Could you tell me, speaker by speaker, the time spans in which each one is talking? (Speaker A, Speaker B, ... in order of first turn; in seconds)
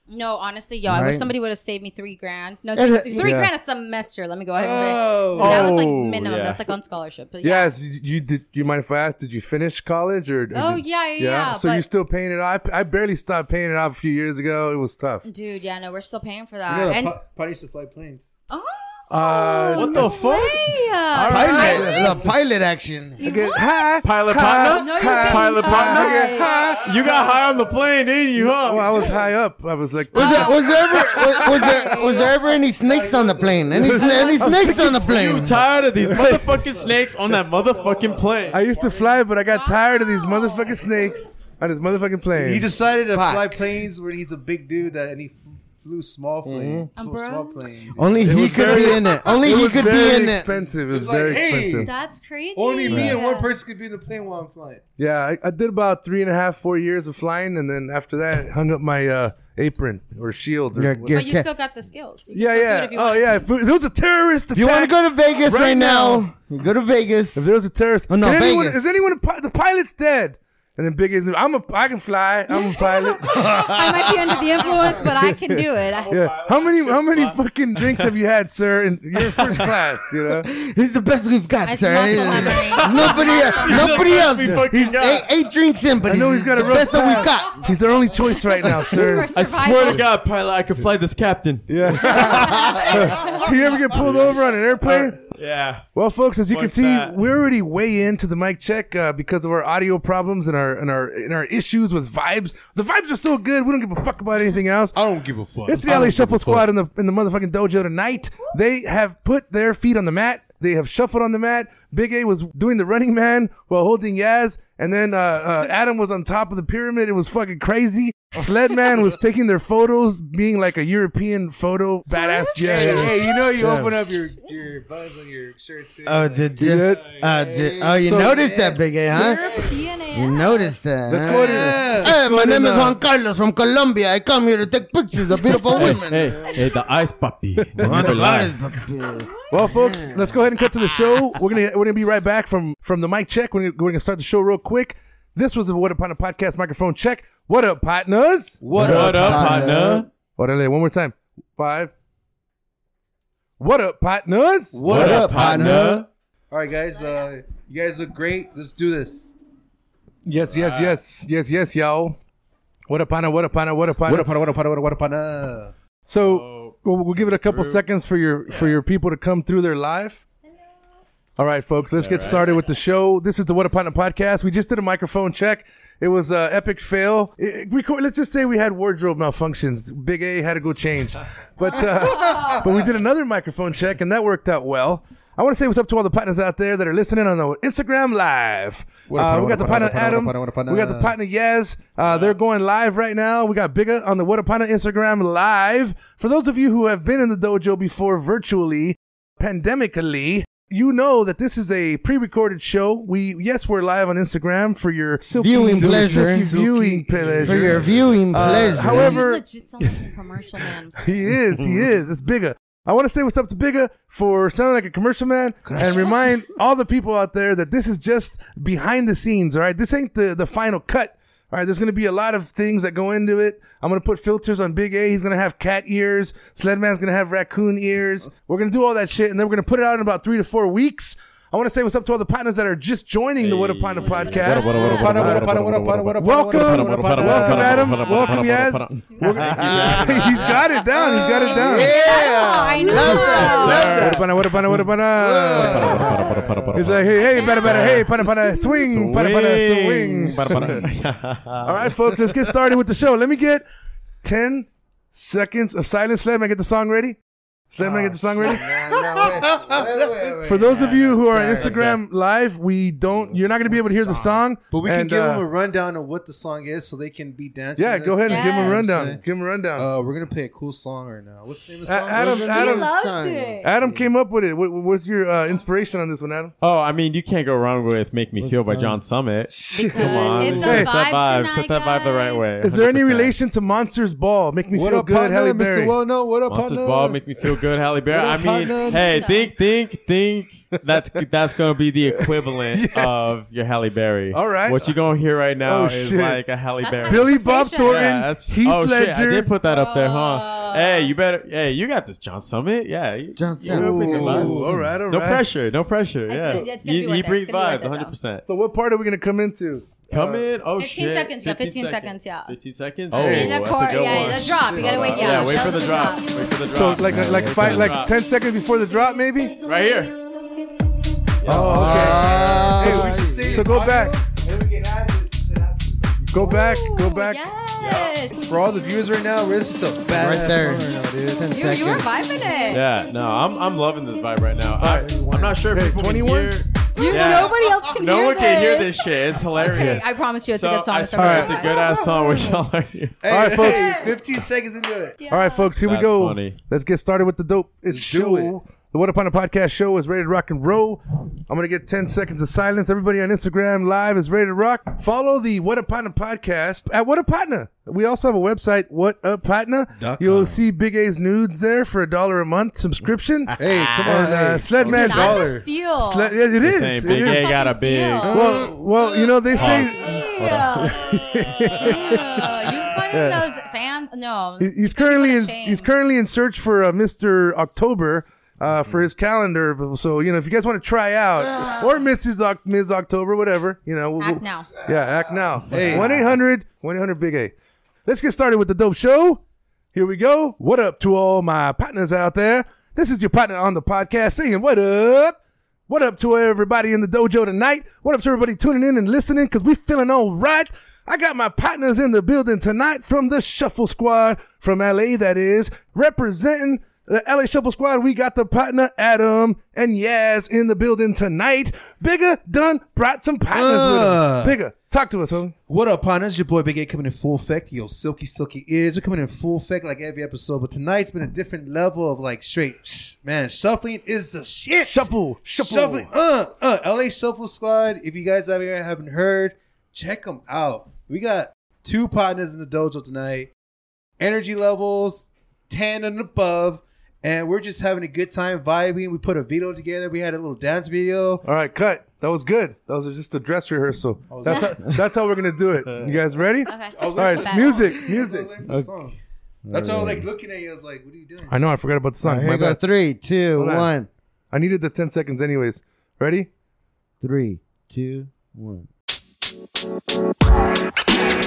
Speaker A: 0.1-7.7, 10.5-11.8, 15.3-17.2, 18.5-22.3, 23.2-24.0, 24.7-26.6, 30.1-30.7, 31.4-32.4, 33.8-35.0, 39.5-41.1, 47.0-47.6, 48.8-49.8, 51.7-53.5, 61.1-63.5, 72.5-73.1, 73.6-76.3, 81.6-84.3, 88.9-90.0, 92.0-93.4, 122.1-123.4, 129.1-130.7, 135.5-135.9, 181.7-182.7, 208.8-211.2, 234.0-235.1, 241.4-243.9, 247.2-247.9, 268.2-268.8, 272.3-273.7, 279.7-282.4, 288.7-289.5, 296.8-298.1, 299.6-301.1, 306.3-308.1, 310.8-312.6, 313.2-316.3, 326.4-328.4, 331.5-334.0, 336.9-342.6, 343.5-344.2, 345.2-345.7, 364.8-366.4, 367.1-371.1, 371.7-375.9, 384.2-384.7, 444.5-444.7, 446.6-447.9
Speaker B: 0.8-1.3, 2.8-3.4, 21.3-23.4, 30.1-35.6, 43.1-43.6, 47.9-50.5, 52.9-53.2, 60.7-61.5, 64.5-67.5, 68.1-69.0, 72.8-74.2, 80.3-87.8, 126.0-129.4, 130.1-136.4, 137.8-140.4, 148.8-150.1, 154.9-155.9, 205.3-206.5, 207.4-209.2, 239.3-240.7, 241.2-244.3, 245.2-246.5, 258.4-261.9, 263.5-264.4, 272.2-274.1, 278.4-279.0, 303.4-304.9, 317.1-317.4, 321.5-323.7, 330.1-332.1, 449.7-450.3, 452.2-454.1, 457.2-458.9
Speaker C: 3.2-3.5, 7.4-15.3, 19.1-20.4, 21.5-22.2, 23.2-26.9, 28.4-32.0, 33.7-35.3, 36.0-36.4, 38.5-42.7, 46.5-46.9, 48.2-51.9, 55.0-61.2, 62.3-64.9, 65.5-66.3, 67.3-73.7, 76.1-80.5, 86.0-90.0, 91.7-95.2, 95.9-105.0, 105.6-123.9, 126.6-127.0, 128.0-128.4, 131.1-131.8, 137.8-138.3, 139.5-148.6, 150.4-151.9, 153.6-155.1, 155.7-156.1, 160.3-162.2, 162.9-164.3, 166.1-170.2, 171.4-209.4, 211.0-235.5, 236.2-242.0, 242.9-246.1, 246.7-250.8, 251.6-253.7, 254.2-257.2, 257.7-258.7, 260.4-265.5, 267.8-269.9, 271.9-272.9, 273.6-276.5, 279.5-280.9, 282.6-286.0, 292.7-293.4, 294.3-294.9, 295.6-296.4, 297.0-299.5, 303.7-305.5, 308.5-310.5, 316.7-319.6, 321.4-324.2, 326.3-327.4, 335.6-336.6, 341.2-341.6, 343.3-344.1, 345.3-367.5, 368.3-372.4, 373.1-373.4, 374.6-387.5, 388.1-389.4, 389.9-395.4, 395.9-415.5, 424.8-426.1, 441.4-448.5, 451.5-452.8, 453.6-453.9, 454.5-456.5
Speaker D: 4.5-5.8, 16.7-18.2, 32.1-34.4, 35.8-37.0, 37.7-39.3, 42.3-49.4, 50.8-51.9, 52.5-54.8, 104.9-106.7, 122.6-129.8, 131.2-133.0, 148.6-149.6, 154.7-156.0, 156.5-159.3, 164.0-165.7, 182.3-182.6, 189.1-191.2, 205.5-209.2, 215.6-216.4, 234.4-238.4, 241.0-241.4, 242.9-244.0, 245.2-246.3, 257.8-260.3, 264.0-269.2, 269.8-272.4, 280.4-280.7, 284.7-289.3, 304.2-304.6, 313.1-315.6, 321.7-326.5, 328.3-331.5, 334.9-335.6, 343.2-345.2, 347.9-348.6, 359.9-360.7, 363.5-365.7, 385.7-386.2, 413.5-414.6, 415.7-433.5, 434.2-441.4, 444.3-444.8, 446.9-449.1, 449.7-451.6
Speaker E: 5.4-6.8, 19.8-22.2, 24.0-29.1, 35.1-38.7, 76.0-78.1, 79.2-79.9, 82.3-85.3, 89.3-95.9, 96.5-97.2, 135.7-138.5, 148.8-150.1, 154.9-156.1, 160.5-161.0, 166.2-167.8, 168.5-168.8, 171.9-172.6, 192.0-192.4, 233.4-240.5, 243.4-244.3, 245.6-252.2, 261.6-262.0, 276.6-283.4, 286.4-308.5, 310.1-318.1, 319.6-320.2, 321.4-322.2, 327.8-328.1, 332.7-343.2, 345.8-346.6, 363.5-364.3, 366.6-368.5, 369.5-370.9, 372.2-372.8, 378.7-379.1